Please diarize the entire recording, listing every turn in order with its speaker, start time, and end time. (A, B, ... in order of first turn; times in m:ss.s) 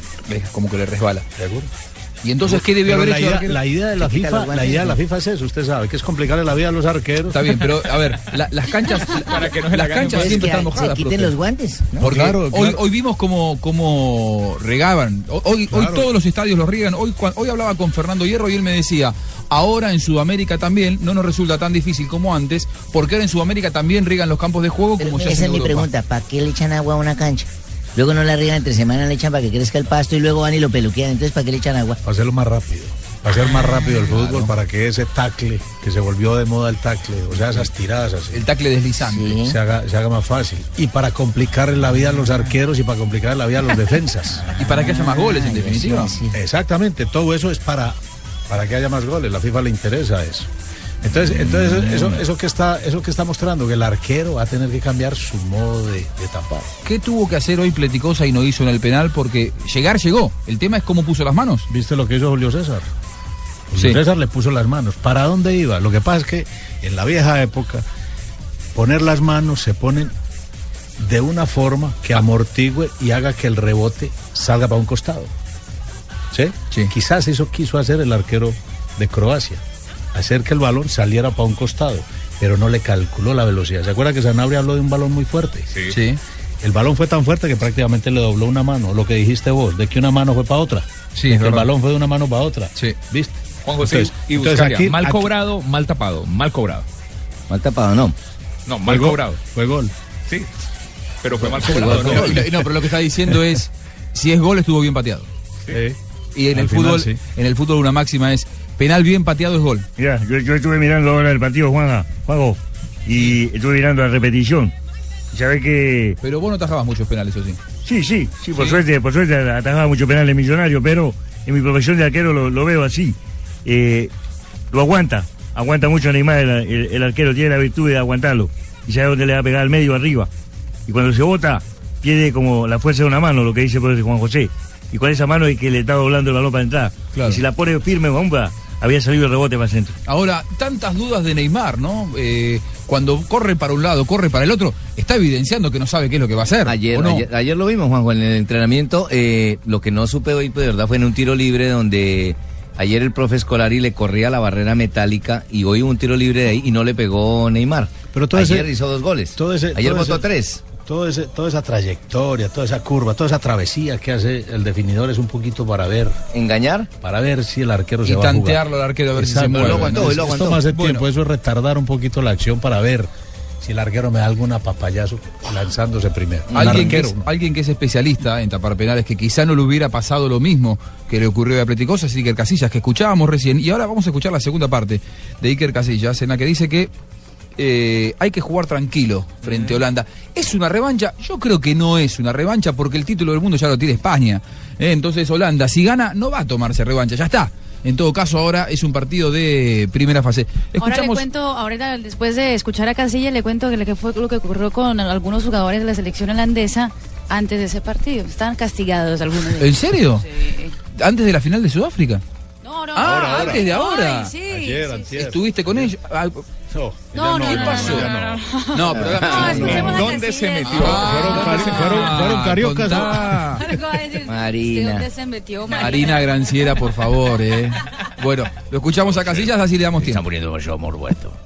0:00.2-0:01.2 A
0:01.4-0:01.7 B
0:02.2-0:03.6 A
0:02.4-0:07.5 B
0:04.0-0:05.0 C
0:07.3-0:11.4 A
0:09.1-0:10.6 D
0:10.0-0:12.1 C
0:12.0-0:25.9 A
0:12.0-0:12.8 B
0:15.7-0:16.1 B
0:25.0-0:32.0 C
0:32.0-0:38.4 B
0:34.0-0:34.5 A
0:38.3-0:39.4 A
0:39.0-0:39.6 C
0:39.4-0:44.4 B
0:44.5-0:46.2 A
0:44.5-0:46.3 C
0:46.3-0:48.0 B
0:48.5-0:50.5 B
0:51.0-0:56.7 B
0:51.7-0:52.1 C
0:56.8-1:01.7 A
1:01.7-1:02.9 B
1:03.7-1:07.8 B
1:08.7-1:10.1 B
1:11.0-1:15.3 B
1:16.3-1:19.6 B
1:20.1-1:25.7 B
1:25.9-1:26.2 A
1:26.6-1:35.3 B
1:31.1-1:31.7 A
1:33.6-1:36.8 D
1:37.5-1:38.1 E
1:38.7-1:39.4 D
1:38.9-1:39.9 B
1:41.2-1:42.4 D
1:41.6-1:42.6 B
1:41.7-1:45.3 A
1:45.7-1:46.0 B
1:46.3-1:49.9 A
1:46.5-1:47.2 B
1:50.0-1:54.7 F
1:55.3-1:56.2 F
1:56.2-1:57.6 A
1:57.8-2:04.1 F
2:04.7-2:10.3 F
2:10.9-2:19.9 F
2:17.1-2:17.4 A
2:20.1-2:27.3 A
2:26.6-2:40.6 E
2:38.1-2:38.8 B
2:39.3-2:40.3 B
2:40.8-2:46.2 B
2:46.3-2:46.9 E
2:47.0-2:53.1 B
2:48.0-2:51.1 A
2:49.4-2:50.6 E
2:53.6-2:57.3 B
2:56.5-2:57.0 E
2:56.5-3:06.9 A
3:07.6-3:21.2 A
3:20.8-3:30.7 G
3:29.6-3:30.3 A
3:30.9-3:32.2 A
3:32.6-3:35.1 G
3:32.9-3:34.3 A
3:33.0-3:33.7 B
3:34.5-3:35.9 B
3:35.1-3:36.4 A
3:36.7-3:38.4 B
3:37.1-3:42.0 G
3:37.4-3:38.1 A
3:38.7-3:40.1 A
3:38.9-3:39.5 E
3:39.4-3:40.2 B
3:39.4-3:43.0 D
3:40.7-3:43.7 A
3:40.9-3:43.3 B
3:43.5-3:46.4 G
3:44.2-3:45.1 E
3:45.7-3:50.2 A
3:50.0-3:51.0 E
3:50.2-3:51.3 C